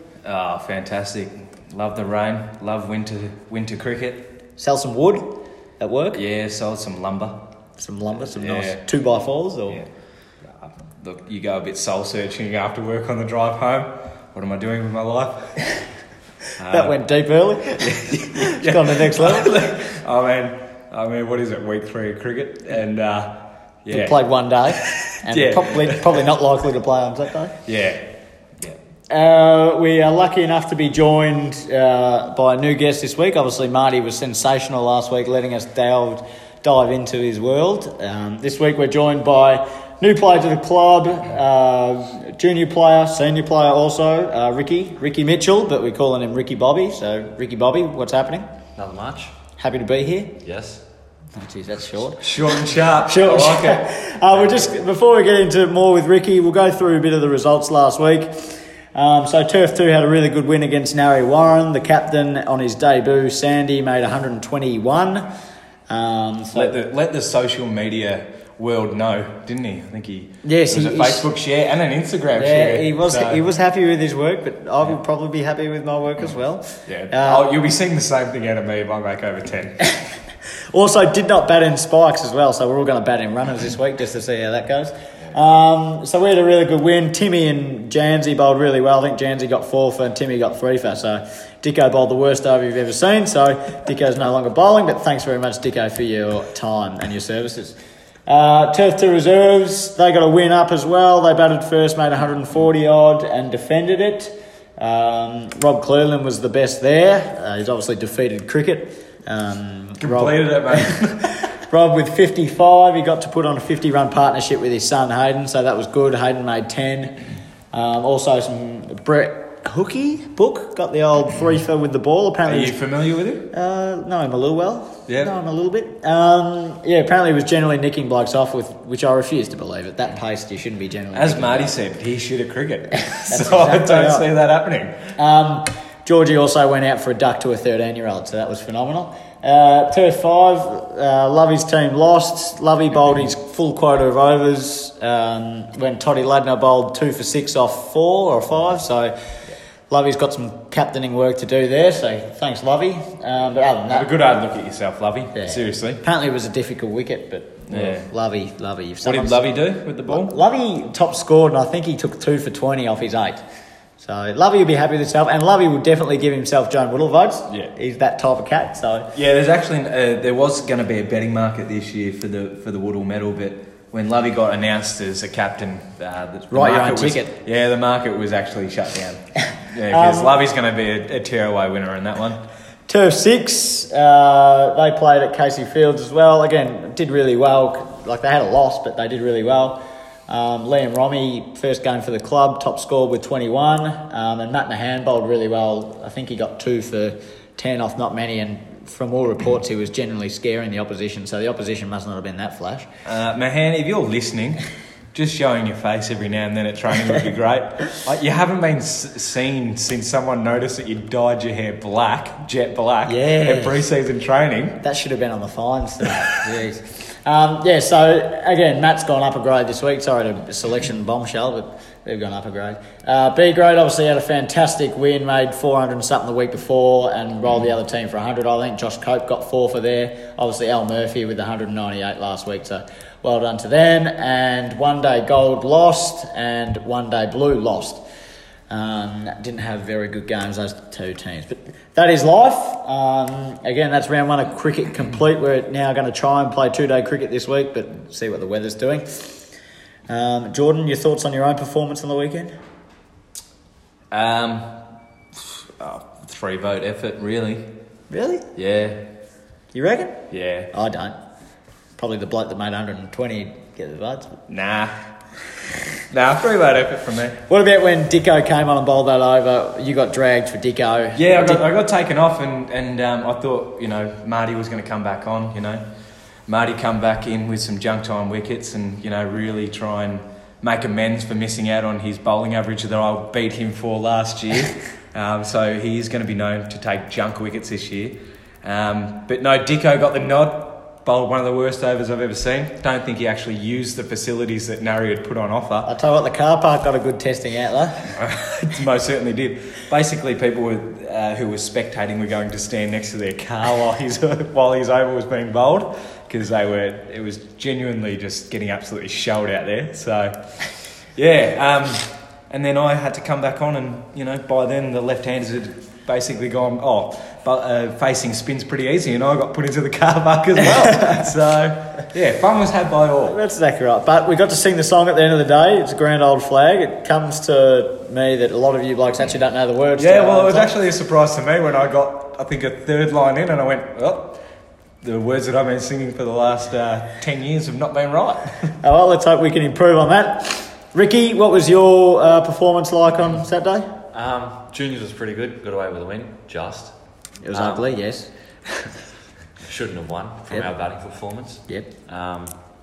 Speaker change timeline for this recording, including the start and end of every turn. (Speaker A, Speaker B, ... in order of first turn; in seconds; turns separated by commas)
Speaker A: 0.2-4.3, Speaker B: 4.6-6.2, Speaker A: 6.1-7.4, Speaker B: 7.8-9.8, Speaker A: 8.2-8.8, Speaker A: 10.4-15.7, Speaker A: 16.6-16.9, Speaker B: 16.7-19.5, Speaker A: 17.8-24.2, Speaker B: 23.9-27.5, Speaker A: 24.8-26.3, Speaker A: 27.6-28.1, Speaker B: 29.1-48.5, Speaker C: 48.8-49.3, Speaker B: 49.6-50.3, Speaker C: 50.4-50.8, Speaker B: 51.4-65.3, Speaker A: 52.2-53.9, Speaker B: 65.9-66.7, Speaker A: 66.5-73.4, Speaker B: 70.4-71.3, Speaker B: 72.3-77.5, Speaker A: 76.9-79.8, Speaker B: 80.7-117.2, Speaker A: 110.0-111.3, Speaker B: 117.7-122.8, Speaker A: 122.5-123.5, Speaker B: 123.5-131.7, Speaker A: 131.1-135.1, Speaker B: 133.2-134.3, Speaker B: 135.2-149.1, Speaker B: 149.9-154.1, Speaker A: 153.9-156.0, Speaker B: 155.3-159.5, Speaker A: 157.7-158.1, Speaker A: 159.0-160.4, Speaker B: 160.1-163.4, Speaker B: 164.0-169.1, Speaker A: 169.1-182.4, Speaker B: 176.5-177.3, Speaker B: 179.9-180.3, Speaker B: 182.9-202.9, Speaker A: 203.0-214.8, Speaker B: 213.1-213.8, Speaker B: 214.8-238.0, Speaker B: 238.7-249.5, Speaker B: 250.1-252.5, Speaker A: 254.1-254.8, Speaker A: 255.3-257.7, Speaker B: 258.1-258.4, Speaker A: 258.5-259.0, Speaker B: 259.7-260.2, Speaker A: 260.3-260.7, Speaker B: 260.7-261.2, Speaker B: 262.0-264.4, Speaker A: 264.5-264.9, Speaker A: 266.1-267.4, Speaker B: 267.5-271.6, Speaker A: 271.1-275.8, Speaker A: 276.5-295.9, Speaker B: 295.8-298.1, Speaker A: 298.2-310.4, Speaker A: 311.1-323.4, Speaker B: 323.3-330.7, Speaker A: 330.0-334.4, Speaker A: 335.0-338.7, Speaker B: 338.8-343.9, Speaker C: 344.1-346.9, Speaker B: 347.4-348.9, Speaker C: 347.5-347.8, Speaker C: 349.6-352.5